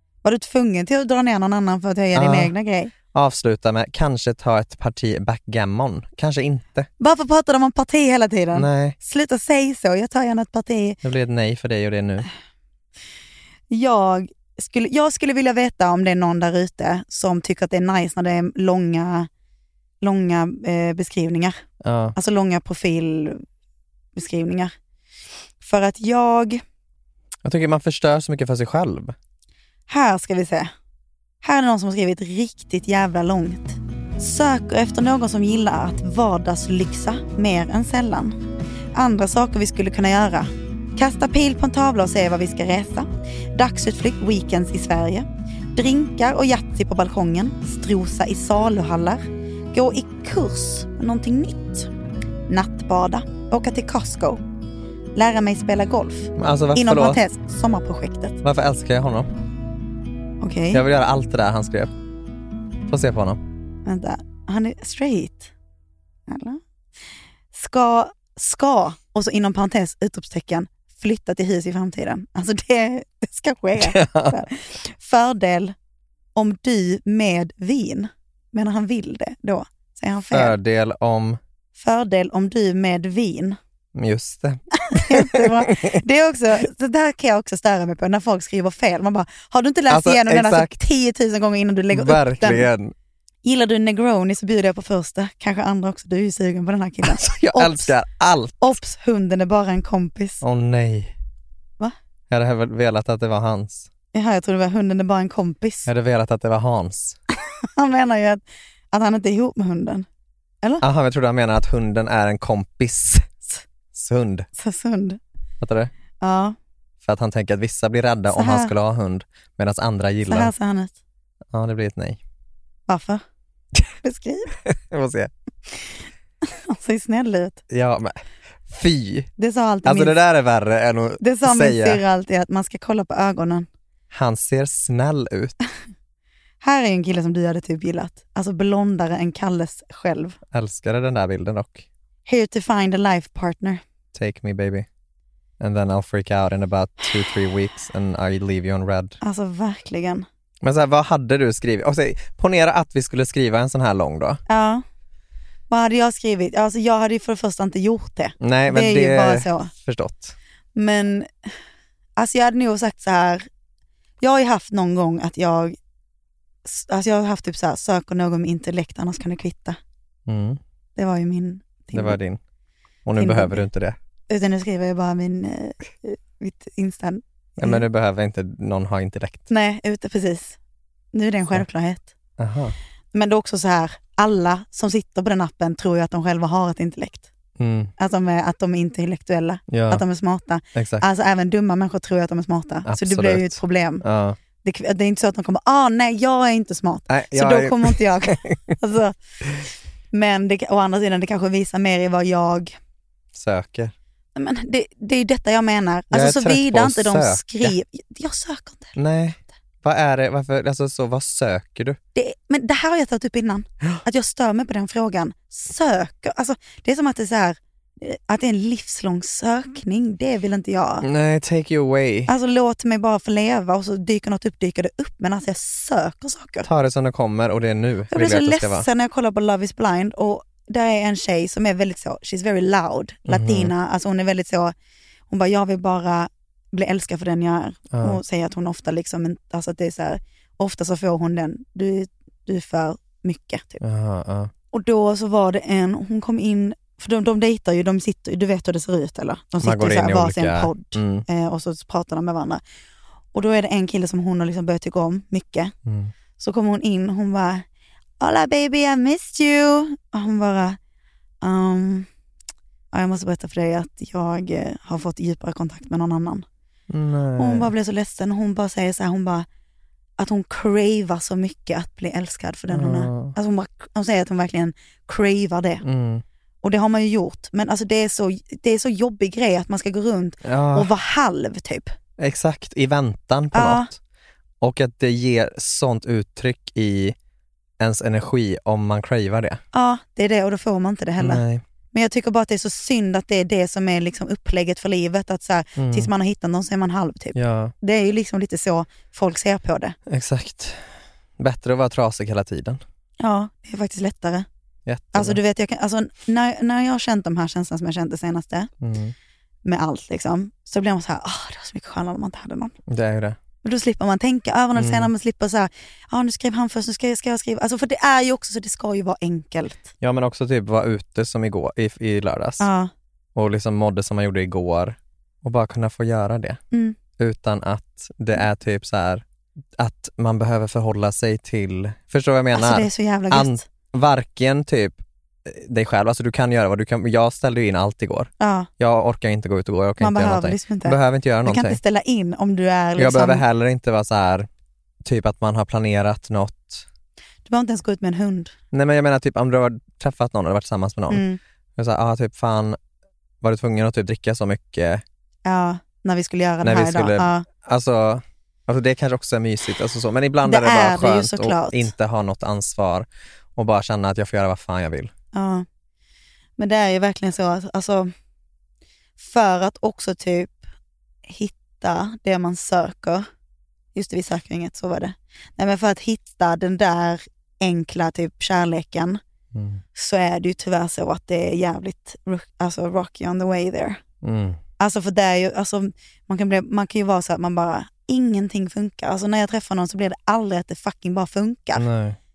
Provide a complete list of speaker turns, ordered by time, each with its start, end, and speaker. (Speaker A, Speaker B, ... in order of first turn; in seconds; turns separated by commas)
Speaker A: 0.2-2.9, Speaker B: 2.1-2.5, Speaker B: 3.1-6.9, Speaker A: 7.0-11.0, Speaker B: 8.5-8.9, Speaker B: 11.0-12.3, Speaker A: 13.7-19.3, Speaker A: 20.0-21.6, Speaker B: 21.8-22.1, Speaker A: 22.1-23.4, Speaker A: 24.1-24.7, Speaker A: 25.6-26.6, Speaker B: 27.4-29.1, Speaker A: 29.9-30.7, Speaker A: 31.4-38.4, Speaker A: 38.9-51.9, Speaker A: 52.5-54.4, Speaker A: 55.1-58.4, Speaker B: 56.4-57.2, Speaker B: 58.4-59.3, Speaker A: 60.4-60.8, Speaker B: 60.7-61.9, Speaker B: 62.9-63.4, Speaker A: 63.9-65.5, Speaker A: 66.3-66.6, Speaker A: 67.5-75.7, Speaker B: 73.8-74.4, Speaker A: 76.3-80.5, Speaker B: 80.3-81.4, Speaker A: 81.8-83.6, Speaker B: 83.9-86.0, Speaker A: 84.8-92.7, Speaker B: 89.9-90.7, Speaker B: 91.9-92.9, Speaker A: 93.4-97.9, Speaker B: 97.0-98.7, Speaker A: 98.6-100.4, Speaker B: 100.4-101.1, Speaker B: 102.3-103.9, Speaker A: 104.1-105.9, Speaker B: 105.9-107.2, Speaker A: 107.8-110.1, Speaker B: 110.8-113.2, Speaker B: 113.9-114.5, Speaker A: 114.5-115.2, Speaker B: 115.6-115.9, Speaker A: 116.2-116.5, Speaker B: 117.0-120.5, Speaker A: 118.3-118.7, Speaker A: 120.3-121.0, Speaker B: 121.5-122.2, Speaker A: 122.9-123.2, Speaker A: 124.0-124.5, Speaker B: 124.6-125.3, Speaker A: 126.5-127.6, Speaker B: 127.7-129.3, Speaker A: 129.4-130.2, Speaker B: 129.8-132.0, Speaker A: 131.2-133.7, Speaker B: 134.1-135.5, Speaker A: 136.6-140.4, Speaker B: 140.5-141.8, Speaker A: 142.2-143.8, Speaker B: 144.1-144.8, Speaker B: 145.6-149.2, Speaker A: 149.2-150.2, Speaker B: 150.6-154.4, Speaker A: 154.5-154.8, Speaker A: 155.7-159.7, Speaker B: 158.4-160.3, Speaker A: 160.7-161.3, Speaker A: 162.2-163.5, Speaker A: 164.2-165.8, Speaker A: 166.6-169.8, Speaker B: 170.3-170.6, Speaker A: 170.9-172.2, Speaker B: 171.9-172.4, Speaker B: 173.0-174.0, Speaker A: 173.2-173.7, Speaker A: 174.3-177.8, Speaker B: 177.6-179.5, Speaker A: 179.5-180.6, Speaker A: 181.1-182.1, Speaker B: 182.4-182.8, Speaker A: 183.1-187.3, Speaker B: 187.6-187.9, Speaker A: 188.0-194.0, Speaker B: 189.7-190.0, Speaker B: 190.7-191.0, Speaker B: 192.8-194.4, Speaker A: 194.6-199.2, Speaker B: 197.1-198.6, Speaker A: 200.1-202.7, Speaker B: 203.3-203.9, Speaker A: 204.3-208.9, Speaker B: 206.1-207.7, Speaker B: 208.9-212.0, Speaker A: 212.1-221.1, Speaker B: 221.0-222.3, Speaker A: 222.3-226.7, Speaker B: 226.6-228.9, Speaker A: 228.1-234.7, Speaker B: 233.2-233.7, Speaker A: 235.3-243.8, Speaker B: 237.9-238.2, Speaker B: 243.8-244.5, Speaker A: 244.7-252.6, Speaker B: 249.6-251.2, Speaker A: 253.3-255.7, Speaker B: 255.8-256.1, Speaker A: 256.4-257.6, Speaker A: 258.2-260.8, Speaker A: 261.4-262.1, Speaker A: 262.9-266.4, Speaker B: 266.9-267.7, Speaker A: 267.4-269.5, Speaker A: 270.2-275.8, Speaker B: 272.7-273.3, Speaker B: 275.8-276.2, Speaker A: 276.6-281.9, Speaker B: 280.4-280.9, Speaker B: 282.2-283.9, Speaker A: 283.5-283.9, Speaker B: 284.6-287.1, Speaker B: 287.8-289.6, Speaker A: 289.7-299.9, Speaker B: 291.2-291.6, Speaker B: 295.8-296.1, Speaker B: 297.3-297.7, Speaker B: 300.1-300.8, Speaker B: 301.4-302.8, Speaker A: 303.2-304.4, Speaker B: 304.9-305.4, Speaker A: 305.1-308.7, Speaker B: 308.8-309.1, Speaker A: 309.6-312.7, Speaker B: 312.9-313.4, Speaker A: 313.6-319.9, Speaker B: 314.8-315.1, Speaker B: 320.0-322.7, Speaker A: 322.6-322.9, Speaker B: 323.3-326.6, Speaker B: 327.2-329.2, Speaker B: 329.8-341.8, Speaker A: 332.5-333.6, Speaker A: 338.4-338.7, Speaker A: 340.0-343.4, Speaker B: 343.0-344.5, Speaker B: 345.0-346.8, Speaker A: 347.4-348.5, Speaker B: 348.7-351.2, Speaker A: 351.1-351.4, Speaker B: 351.8-352.8, Speaker B: 353.4-355.0, Speaker A: 355.4-357.4, Speaker B: 356.6-365.1, Speaker A: 360.4-361.9, Speaker A: 365.3-365.6, Speaker A: 366.6-368.1, Speaker A: 369.2-370.6, Speaker A: 371.2-373.3, Speaker A: 373.9-379.2, Speaker B: 379.5-379.8, Speaker A: 379.9-384.0, Speaker B: 384.2-384.6, Speaker A: 384.8-391.8, Speaker B: 391.7-392.2